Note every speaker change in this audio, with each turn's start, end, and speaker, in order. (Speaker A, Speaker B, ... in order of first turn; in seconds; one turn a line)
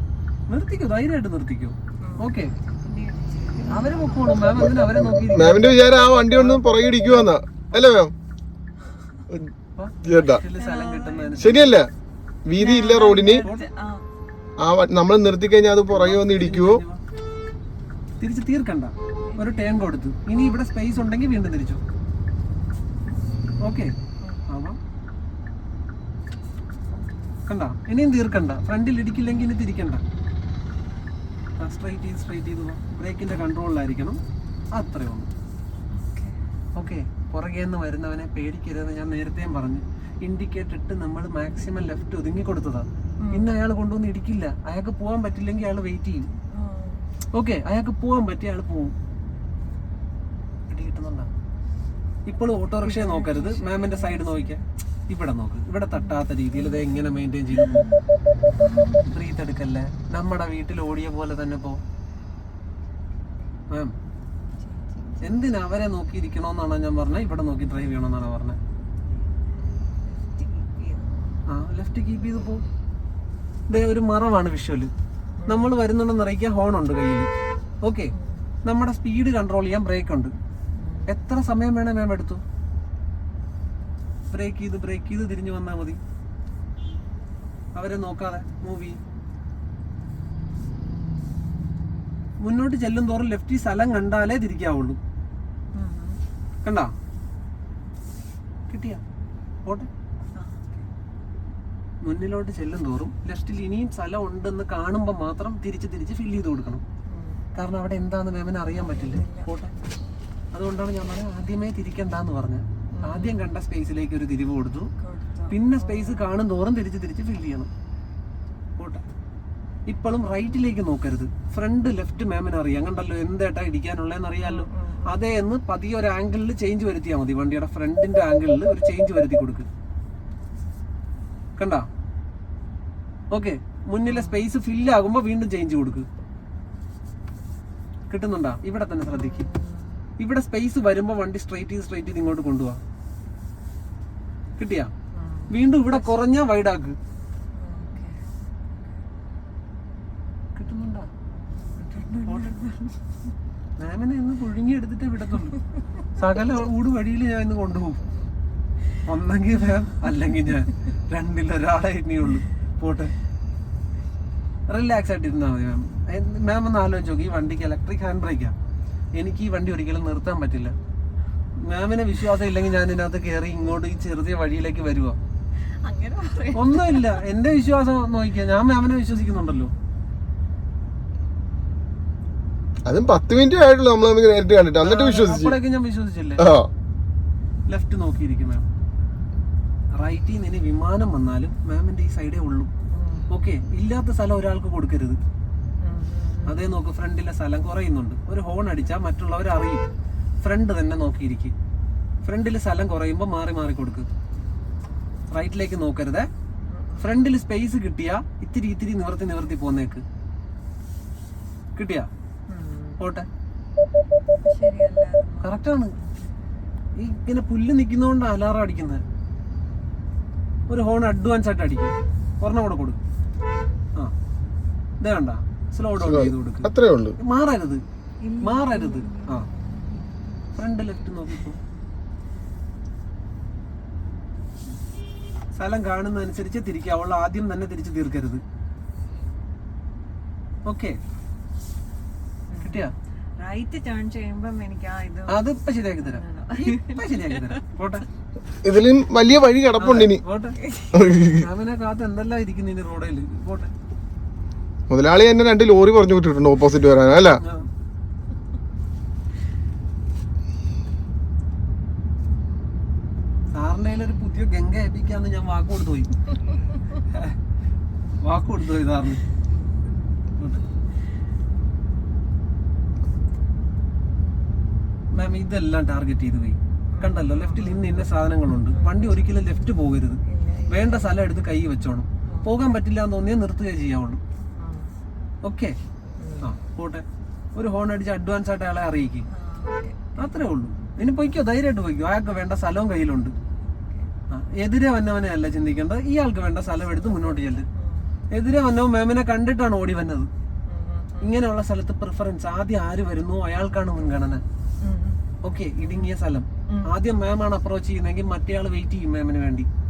Speaker A: 0.5-2.5
Speaker B: 2.0-4.5
Speaker A: 3.6-8.0
Speaker C: 4.3-8.1
Speaker C: 9.3-10.4
Speaker A: 9.7-11.8
Speaker B: 10.6-11.6
Speaker C: 11.4-11.9
Speaker C: 12.4-13.4
Speaker B: 12.6-14.0
Speaker A: 13.2-13.6
Speaker C: 14.6-16.8
Speaker A: 15.9-17.0
Speaker A: 18.2-21.8
Speaker B: 19.3-19.9
Speaker A: 23.6-23.9
Speaker A: 24.5-24.8
Speaker A: 27.5-30.0
Speaker A: 31.6-34.2
Speaker A: 34.7-35.3
Speaker B: 35.9-36.4
Speaker A: 36.7-46.3
Speaker B: 43.2-43.5
Speaker B: 46.5-47.1
Speaker A: 47.3-48.9
Speaker A: 50.7-51.3
Speaker A: 52.3-57.9
Speaker B: 52.7-54.6
Speaker B: 55.9-58.0
Speaker B: 58.6-59.0
Speaker A: 59.0-61.8
Speaker B: 64.6-65.5
Speaker A: 65.2-68.6
Speaker B: 70.0-71.4
Speaker A: 71.5-72.6
Speaker A: 73.7-74.9
Speaker B: 75.4-75.7
Speaker A: 75.5-77.3
Speaker A: 77.8-78.1
Speaker B: 78.1-78.5
Speaker A: 78.6-80.3
Speaker B: 80.8-81.1
Speaker A: 81.1-82.4
Speaker A: 84.3-86.0
Speaker A: 87.8-89.0
Speaker A: 92.4-95.0
Speaker B: 95.7-96.2
Speaker A: 96.6-96.9
Speaker A: 98.7-99.0
Speaker B: 100.3-100.8
Speaker A: 102.0-106.8
Speaker B: 107.1-107.4
Speaker A: 107.5-109.7
Speaker B: 108.7-110.1
Speaker A: 110.5-114.9
Speaker B: 112.9-113.5
Speaker B: 115.0-116.3
Speaker A: 115.5-117.7
Speaker A: 118.8-119.0
Speaker A: 119.9-129.7
Speaker B: 124.4-125.2
Speaker A: 131.6-131.9
Speaker A: 133.3-136.1
Speaker B: 134.0-134.4
Speaker A: 138.1-139.5
Speaker B: 139.1-140.0
Speaker A: 140.2-142.8
Speaker A: 144.6-144.9
Speaker B: 145.1-146.1
Speaker A: 145.5-147.0
Speaker B: 147.5-149.0
Speaker A: 150.5-151.1
Speaker B: 151.8-153.0
Speaker A: 152.2-152.6
Speaker A: 153.8-158.0
Speaker A: 159.0-163.1
Speaker A: 164.7-168.5
Speaker A: 169.2-170.7
Speaker A: 171.6-175.2
Speaker B: 175.6-177.2
Speaker A: 176.5-179.7
Speaker C: 182.8-185.6
Speaker A: 184.8-186.5
Speaker C: 186.4-186.7
Speaker A: 187.7-188.7
Speaker A: 189.9-192.7
Speaker B: 192.9-193.3
Speaker A: 193.3-195.2
Speaker B: 195.8-196.7
Speaker A: 196.4-199.8
Speaker A: 200.4-201.5
Speaker A: 202.2-204.1
Speaker A: 205.3-206.3
Speaker B: 206.7-207.1
Speaker A: 207.0-210.0
Speaker A: 211.8-212.1
Speaker B: 212.5-213.0
Speaker A: 213.0-213.3
Speaker B: 214.4-216.3
Speaker A: 215.4-215.9
Speaker A: 216.9-219.0
Speaker A: 220.7-223.0
Speaker A: 225.0-227.8
Speaker C: 226.0-227.2
Speaker B: 228.2-230.1
Speaker A: 228.4-229.5
Speaker A: 230.6-231.6
Speaker A: 235.5-238.4
Speaker A: 240.6-241.0
Speaker B: 242.5-242.8
Speaker A: 242.6-242.9
Speaker B: 243.4-247.7
Speaker A: 245.3-248.1
Speaker C: 248.6-250.2
Speaker A: 249.8-253.7
Speaker B: 250.6-251.0
Speaker C: 250.9-251.5
Speaker C: 254.9-257.4
Speaker A: 257.3-257.7
Speaker A: 263.5-266.1
Speaker A: 266.9-267.3
Speaker A: 268.2-269.2
Speaker A: 270.4-270.6
Speaker A: 275.1-284.2
Speaker B: 276.9-277.9
Speaker B: 278.7-279.2
Speaker B: 280.2-281.3
Speaker B: 282.3-282.5
Speaker B: 284.6-284.9
Speaker A: 285.4-285.8
Speaker B: 286.2-286.5
Speaker A: 286.4-289.3
Speaker B: 289.3-290.4
Speaker A: 290.2-293.3
Speaker A: 294.3-297.7
Speaker B: 297.0-298.1
Speaker A: 298.3-300.3
Speaker B: 300.7-301.3
Speaker A: 301.2-304.4
Speaker B: 304.8-305.2
Speaker A: 305.4-309.7
Speaker B: 305.8-306.1